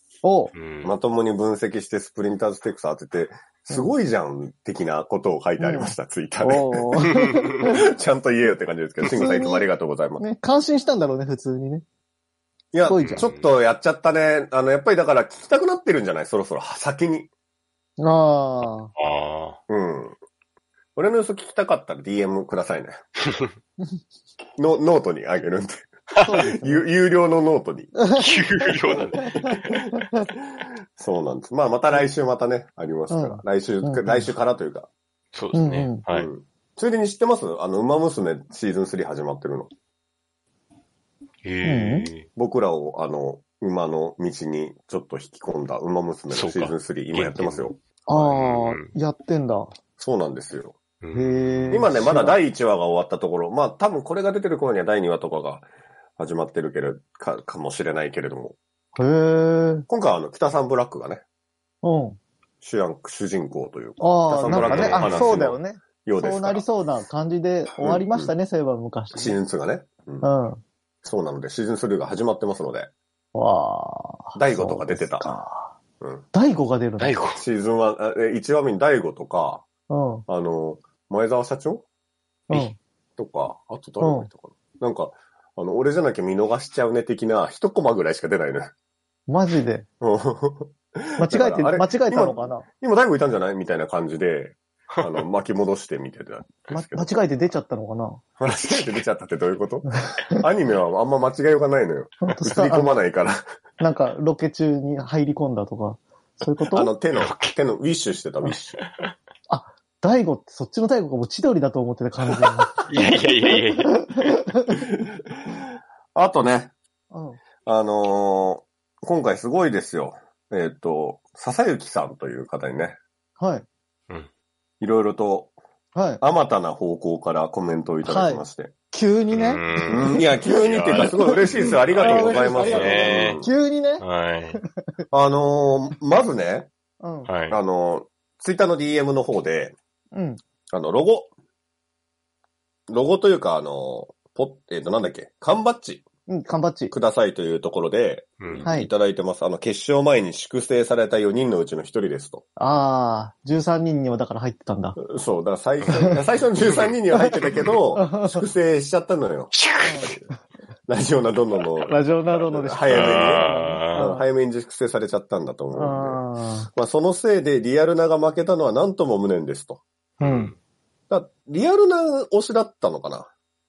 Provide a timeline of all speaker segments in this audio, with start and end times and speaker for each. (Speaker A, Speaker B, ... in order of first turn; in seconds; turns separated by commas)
Speaker A: 0.2-0.5, Speaker B: 0.5-0.9, Speaker C: 0.8-10.2, Speaker A: 5.6-7.8, Speaker A: 9.0-9.7, Speaker A: 10.2-11.8, Speaker C: 12.7-17.3, Speaker A: 12.8-13.3, Speaker B: 13.0-13.4, Speaker A: 18.0-18.9, Speaker B: 18.9-19.6, Speaker C: 19.7-20.1, Speaker C: 20.9-23.0, Speaker C: 24.6-25.9, Speaker A: 26.2-26.8, Speaker C: 26.6-27.9, Speaker A: 27.9-28.2, Speaker B: 28.1-29.7, Speaker A: 29.4-30.2, Speaker C: 30.6-34.9, Speaker A: 33.1-34.3, Speaker B: 35.3-36.3, Speaker A: 35.5-36.0, Speaker C: 36.1-39.7, Speaker B: 41.4-42.3, Speaker A: 41.6-42.1, Speaker C: 42.4-47.8, Speaker B: 46.3-48.9, Speaker A: 48.1-49.7, Speaker C: 50.0-50.8, Speaker B: 51.0-51.8, Speaker A: 51.1-52.4, Speaker C: 51.7-55.6, Speaker C: 56.2-58.5, Speaker A: 59.0-59.9, Speaker C: 59.9-61.2, Speaker A: 61.8-62.2, Speaker C: 62.6-66.6, Speaker A: 64.0-69.4, Speaker B: 64.4-65.5, Speaker C: 67.8-68.3, Speaker C: 69.1-70.3, Speaker A: 70.2-70.6, Speaker C: 71.0-72.9, Speaker A: 73.3-75.7, Speaker C: 74.3-75.3, Speaker A: 76.3-77.2, Speaker B: 77.0-77.4, Speaker C: 77.3-79.6, Speaker A: 79.9-80.2, Speaker C: 80.3-81.8, Speaker A: 82.5-82.8, Speaker C: 83.2-88.7, Speaker A: 84.0-84.3, Speaker A: 89.3-89.8, Speaker C: 90.0-97.1, Speaker A: 91.2-92.6, Speaker A: 96.7-98.2, Speaker C: 98.4-103.4, Speaker B: 98.5-98.8, Speaker A: 102.2-103.0, Speaker A: 103.8-106.9, Speaker C: 106.7-108.8, Speaker B: 107.2-107.5, Speaker B: 108.8-109.1, Speaker A: 109.5-112.8, Speaker B: 112.8-114.3, Speaker A: 113.8-114.7, Speaker C: 114.9-116.7, Speaker A: 117.1-117.4, Speaker C: 117.6-123.0, Speaker A: 123.4-123.7, Speaker C: 124.8-125.5, Speaker A: 125.9-126.2, Speaker C: 126.2-128.7, Speaker A: 128.0-130.1, Speaker B: 129.3-133.4, Speaker C: 129.9-133.5, Speaker A: 131.0-134.0, Speaker B: 134.0-134.6, Speaker C: 135.1-136.7, Speaker A: 137.0-137.3, Speaker B: 137.3-137.6, Speaker C: 137.5-139.8, Speaker A: 140.1-140.4, Speaker C: 140.7-141.3, Speaker C: 142.9-146.1, Speaker A: 146.3-146.9, Speaker C: 146.9-152.4, Speaker B: 148.4-148.7, Speaker A: 148.6-148.9, Speaker A: 152.6-155.0, Speaker C: 155.0-160.2, Speaker B: 156.7-156.9, Speaker A: 157.9-158.4, Speaker B: 159.5-160.1, Speaker A: 159.8-160.1, Speaker C: 160.9-166.2, Speaker A: 161.9-164.2, Speaker B: 162.9-164.1, Speaker A: 165.7-166.7, Speaker C: 166.7-169.8, Speaker A: 170.2-170.5, Speaker B: 170.2-170.5, Speaker C: 171.1-173.3